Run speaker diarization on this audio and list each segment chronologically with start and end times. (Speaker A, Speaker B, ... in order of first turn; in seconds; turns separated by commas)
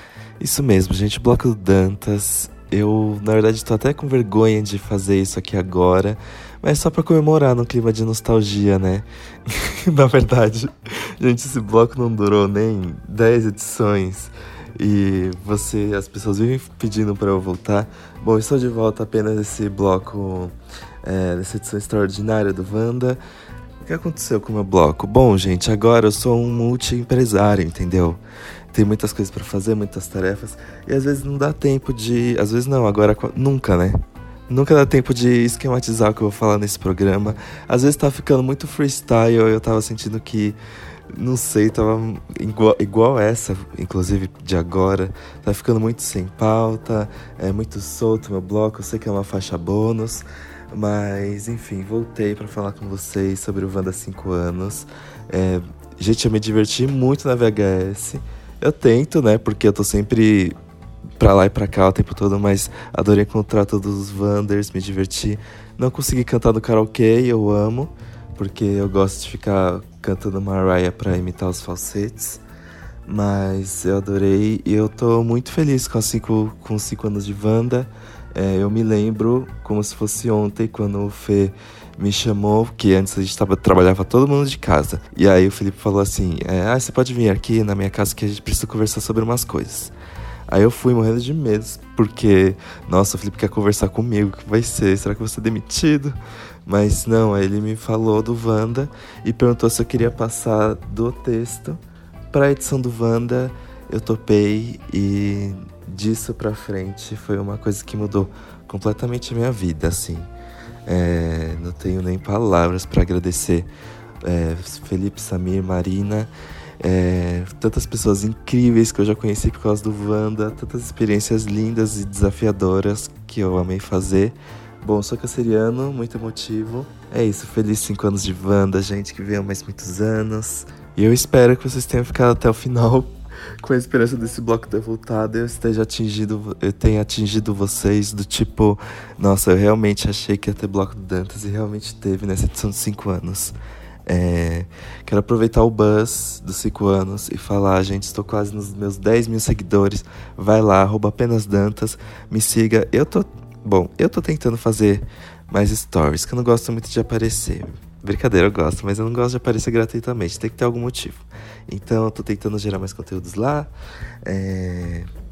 Speaker A: 0.4-20.5, Speaker A: 21.1-23.2, Speaker A: 23.8-28.2, Speaker A: 28.7-40.6, Speaker A: 41.1-60.5, Speaker A: 61.2-72.4, Speaker A: 73.1-89.9, Speaker A: 90.5-101.8, Speaker A: 102.3-110.3, Speaker A: 110.9-113.7, Speaker A: 114.2-116.3, Speaker A: 116.8-143.6, Speaker A: 144.1-163.7, Speaker A: 164.2-165.1